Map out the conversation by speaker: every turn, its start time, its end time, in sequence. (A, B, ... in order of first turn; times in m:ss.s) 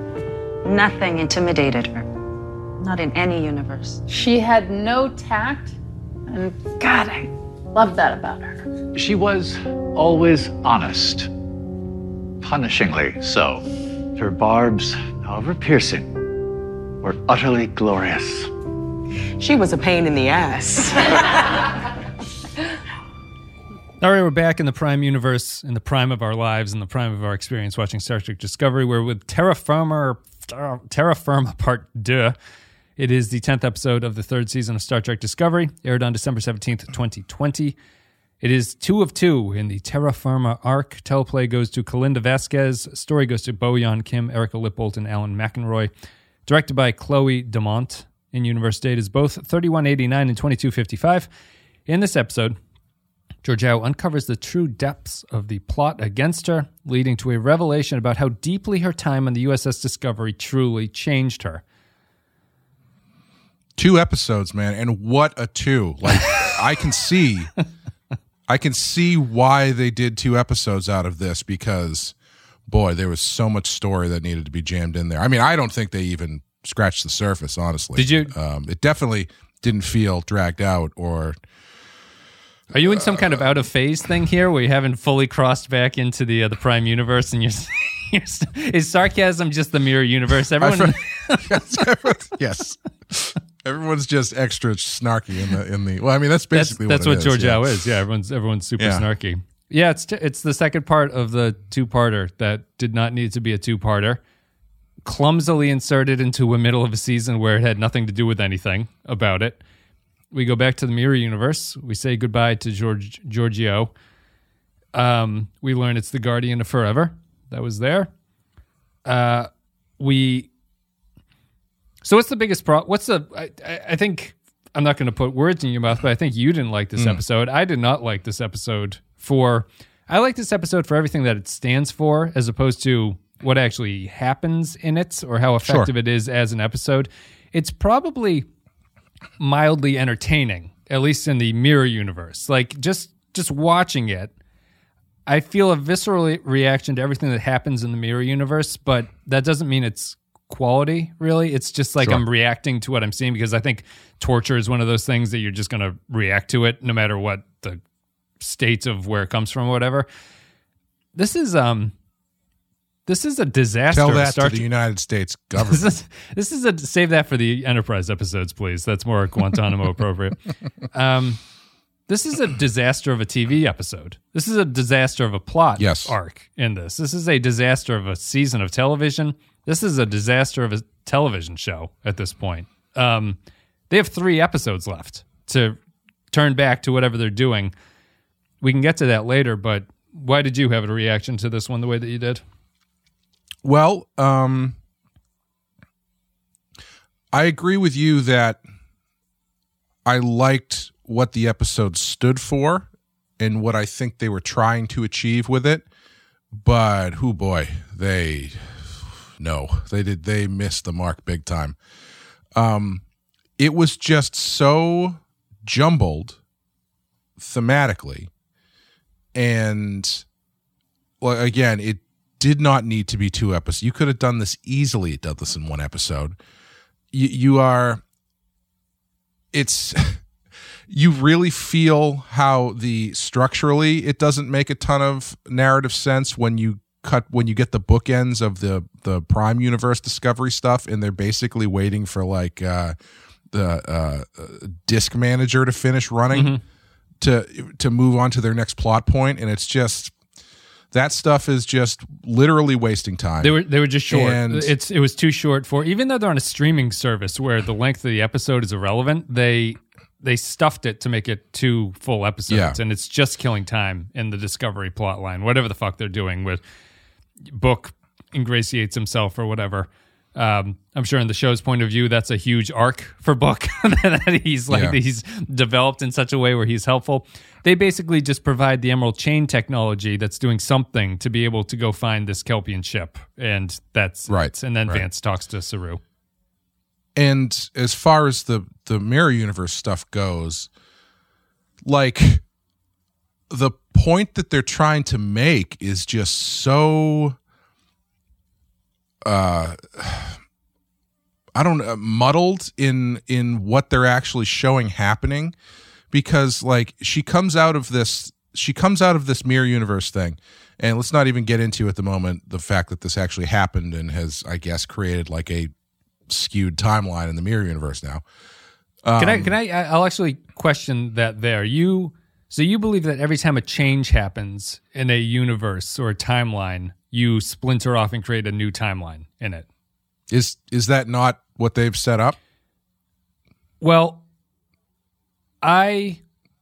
0:00.6-0:02.1 A
0:02.8-0:04.0 A
0:04.1-0:05.8 B
0:06.3-0:08.7 B
0:06.8-0:07.1 A
0:08.9-0:11.3 C
0:12.4-0:13.6 C
0:14.2-0:16.2 C
0:17.0-0:18.5 C
0:19.4-0:21.8 D
0:24.0-0:32.4 E
0:33.0-0:37.8 E
0:38.4-0:45.9 E
0:46.5-0:51.3 E
0:51.9-0:52.6 E
0:53.4-1:01.6 E
1:03.8-1:07.5 F
1:06.1-1:06.5 E
1:08.5-1:12.2 F
1:12.7-1:21.4 F
1:18.0-1:18.3 E
1:22.7-1:31.6 E
1:22.9-1:23.4 F
1:30.6-1:37.8 F
1:36.5-1:44.2 E
1:38.8-1:39.0 F
1:45.0-1:49.6 E
1:50.3-1:53.9 E
1:54.9-1:58.1 E
1:59.0-2:00.5 E
2:02.0-2:18.5 E
2:07.0-2:07.2 F
2:15.6-2:15.9 F
2:19.4-2:24.3 E
2:25.3-2:37.8 E
2:38.4-2:40.1 E
2:41.2-2:41.9 E
2:43.1-2:44.7 E
2:43.9-2:45.9 F
2:45.6-2:50.4 E
2:50.9-2:51.4 E
2:52.1-3:03.4 E
2:55.8-2:56.1 F
3:03.9-3:05.8 E
3:06.3-3:07.7 E
3:08.6-3:12.4 E
3:13.6-3:14.8 F
3:17.3-3:18.6 F
3:20.0-3:25.8 F
3:26.5-3:31.8 F
3:32.5-3:33.0 F
3:33.6-3:36.4 F
3:37.4-3:38.3 F
3:39.3-3:40.2 F
3:41.2-3:46.4 F
3:47.1-3:48.0 F
3:49.5-3:50.2 F
3:50.9-4:03.0 F
4:03.5-4:06.6 F
4:06.3-4:06.6 E
4:07.2-4:10.1 F
4:10.9-4:14.7 F
4:13.4-4:26.6 E
4:22.5-4:22.8 F
4:27.5-4:46.0 E
4:34.7-4:35.0 F
4:44.3-4:45.1 F
4:47.2-4:50.7 F
4:51.8-4:52.4 F
4:53.5-4:57.4 F
4:59.2-5:00.4 F
5:01.6-5:05.5 F
5:06.1-5:15.7 F
5:16.3-5:18.2 F
5:19.0-5:19.5 F
5:19.2-5:29.7 E
5:30.3-5:32.4 F
5:33.8-5:34.2 E
5:35.6-5:36.2 E